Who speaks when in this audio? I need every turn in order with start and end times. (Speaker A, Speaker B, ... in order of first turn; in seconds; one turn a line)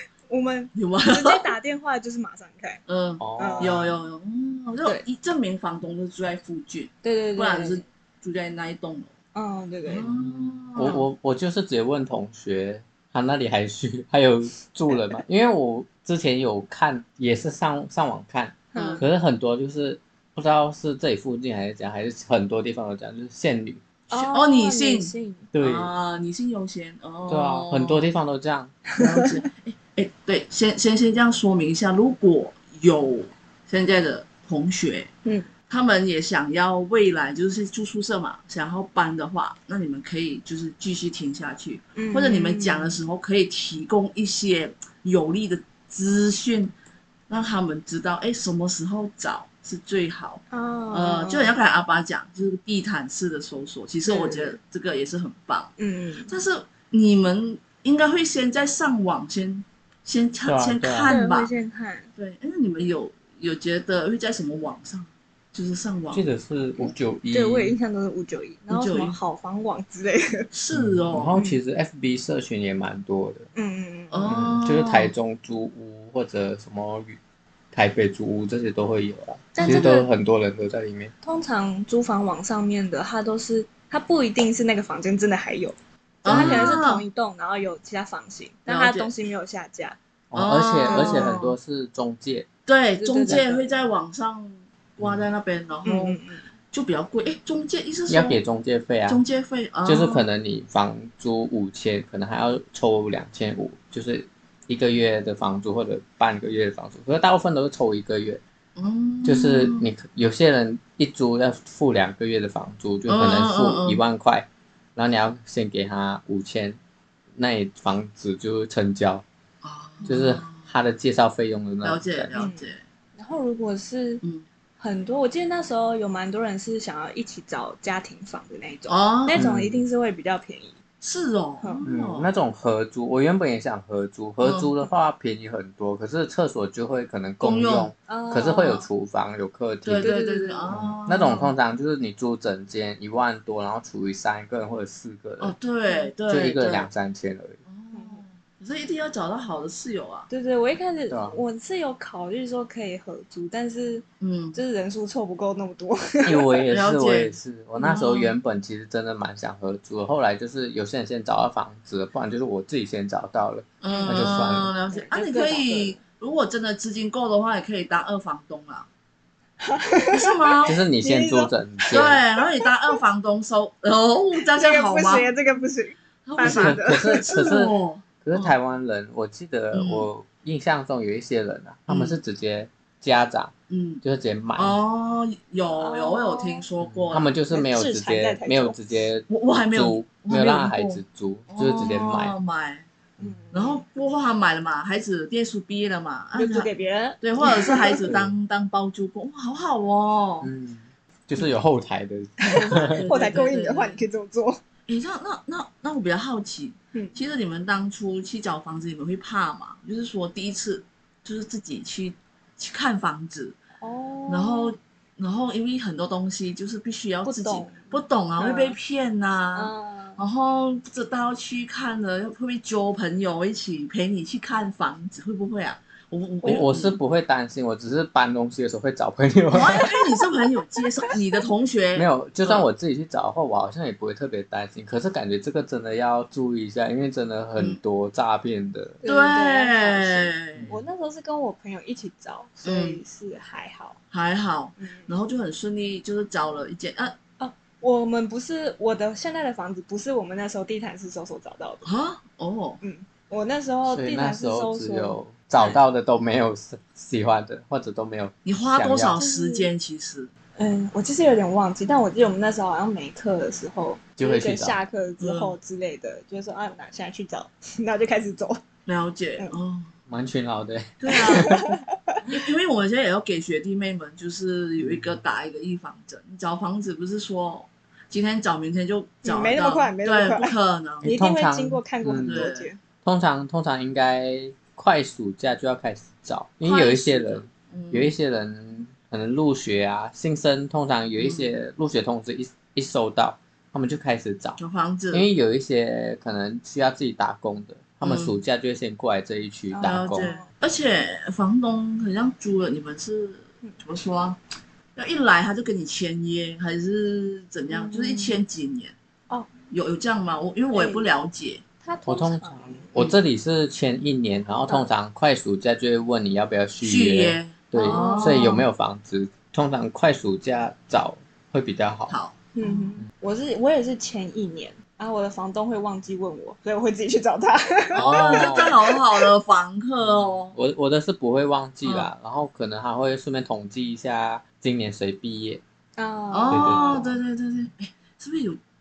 Speaker A: 0.3-2.8
Speaker B: 0.8-1.5
Speaker B: 2.9-9.1
Speaker C: 3.2-4.0
Speaker A: 3.4-3.8
Speaker A: 7.0-7.8
Speaker A: 9.3-10.1
Speaker B: 9.9-11.0
Speaker C: 10.1-23.8
Speaker A: 10.8-11.0
Speaker A: 18.7-19.1
Speaker B: 18.8-19.1
Speaker A: 24.1-25.5
Speaker B: 24.3-28.1
Speaker C: 25.5-25.9
Speaker C: 27.3-28.8
Speaker A: 28.9-29.3
Speaker B: 29.0-35.1
Speaker B: 35.7-46.7
Speaker A: 42.0-43.0
Speaker B: 47.3-55.7
Speaker A: 50.5-51.5
Speaker A: 54.1-54.6
Speaker A: 55.8-56.3
Speaker B: 56.3-61.5
Speaker C: 60.5-61.1
Speaker A: 61.0-62.1
Speaker B: 62.2-66.2
Speaker C: 66.1-67.8
Speaker A: 67.3-70.5
Speaker B: 68.7-69.2
Speaker B: 70.5-71.4
Speaker C: 70.7-73.5
Speaker A: 71.3-71.6
Speaker A: 73.5-74.3
Speaker B: 74.1-75.1
Speaker C: 74.3-77.2
Speaker C: 77.7-81.1
Speaker B: 79.5-80.1
Speaker A: 79.6-80.1
Speaker A: 81.2-90.0
Speaker B: 86.2-87.0
Speaker C: 86.3-86.8
Speaker B: 88.7-89.1
Speaker C: 90.3-92.5
Speaker B: 90.3-91.5
Speaker A: 90.9-91.4
Speaker B: 92.7-96.2
Speaker A: 93.0-93.7
Speaker C: 95.0-95.3
Speaker A: 95.8-96.4
Speaker B: 96.7-98.4
Speaker C: 98.1-99.2
Speaker B: 99.1-100.2
Speaker C: 99.8-108.4
Speaker B: 108.8-109.9
Speaker C: 109.2-116.8
Speaker B: 113.1-114.0
Speaker C: 117.4-119.2
Speaker B: 119.6-120.6
Speaker C: 120.1-122.3
Speaker B: 121.8-122.8
Speaker A: 122.3-124.2
Speaker A: 124.8-130.8
Speaker B: 128.9-129.5
Speaker C: 129.3-129.8
Speaker B: 131.0-132.3
Speaker C: 131.8-140.1
Speaker B: 134.4-134.7
Speaker B: 137.4-137.9
Speaker A: 138.1-138.9
Speaker B: 139.8-141.5
Speaker A: 140.0-140.7
Speaker C: 140.7-145.6
Speaker B: 145.4-146.9
Speaker C: 146.3-147.6
Speaker B: 147.7-150.3
Speaker A: 147.9-148.2
Speaker A: 150.3-156.6
Speaker C: 151.1-151.4
Speaker B: 154.2-154.6
Speaker C: 156.3-164.7
Speaker B: 156.7-158.3
Speaker B: 163.8-168.9
Speaker A: 163.9-164.4
Speaker A: 164.9-166.0
Speaker A: 169.6-173.0
Speaker B: 170.1-170.8
Speaker C: 170.7-172.2
Speaker B: 171.9-175.3
Speaker A: 174.5-177.3
Speaker B: 176.2-178.5
Speaker C: 176.4-184.8
Speaker B: 179.7-180.1
Speaker B: 181.9-182.2
Speaker B: 183.7-184.0
Speaker B: 184.6-187.3
Speaker A: 185.8-186.6
Speaker C: 186.8-192.3
Speaker A: 187.5-188.8
Speaker B: 189.3-192.9
Speaker C: 193.2-193.5
Speaker A: 193.2-193.8
Speaker B: 193.5-196.7
Speaker A: 196.4-198.1
Speaker B: 197.2-200.5
Speaker C: 198.1-198.3
Speaker C: 200.4-203.0
Speaker B: 202.4-204.0
Speaker A: 202.4-204.6
Speaker B: 204.9-213.6
Speaker A: 213.8-214.7
Speaker B: 214.3-227.0
Speaker A: 217.2-218.8
Speaker A: 219.5-220.2
Speaker C: 226.4-229.9
Speaker B: 229.5-232.7
Speaker C: 231.9-239.0
Speaker A: 239.0-244.0
Speaker B: 239.1-240.7
Speaker C: 240.6-240.8
Speaker B: 242.6-243.0
Speaker B: 244.1-247.2
Speaker A: 244.8-245.1
Speaker A: 247.4-251.9
Speaker B: 251.8-252.8
Speaker A: 252.8-255.8
Speaker C: 253.9-259.2
Speaker B: 258.4-260.3
Speaker A: 259.2-259.7
Speaker A: 260.6-268.6
Speaker C: 264.2-264.8
Speaker B: 265.2-265.5
Speaker B: 268.9-269.9
Speaker C: 270.1-271.6
Speaker B: 271.0-271.6
Speaker A: 271.1-272.2
Speaker B: 272.2-281.1
Speaker C: 274.8-275.2
Speaker A: 279.2-282.8
Speaker C: 281.0-282.5
Speaker B: 282.2-282.7
Speaker C: 283.0-294.6
Speaker B: 286.6-288.1
Speaker B: 291.2-291.5
Speaker B: 294.6-295.3
Speaker C: 295.1-300.3
Speaker B: 298.0-298.4
Speaker A: 299.7-300.5
Speaker B: 299.8-304.4
Speaker B: 305.0-308.9
Speaker A: 307.7-308.4
Speaker B: 309.7-311.6
Speaker A: 310.7-311.1
Speaker A: 311.8-312.9
Speaker C: 312.1-322.1
Speaker B: 316.8-318.6
Speaker A: 317.8-318.6
Speaker B: 322.1-322.8
Speaker A: 322.6-329.2
Speaker B: 327.9-330.6
Speaker C: 328.0-328.7
Speaker C: 330.5-335.6
Speaker A: 336.0-337.0
Speaker B: 336.3-338.6
Speaker C: 336.5-337.2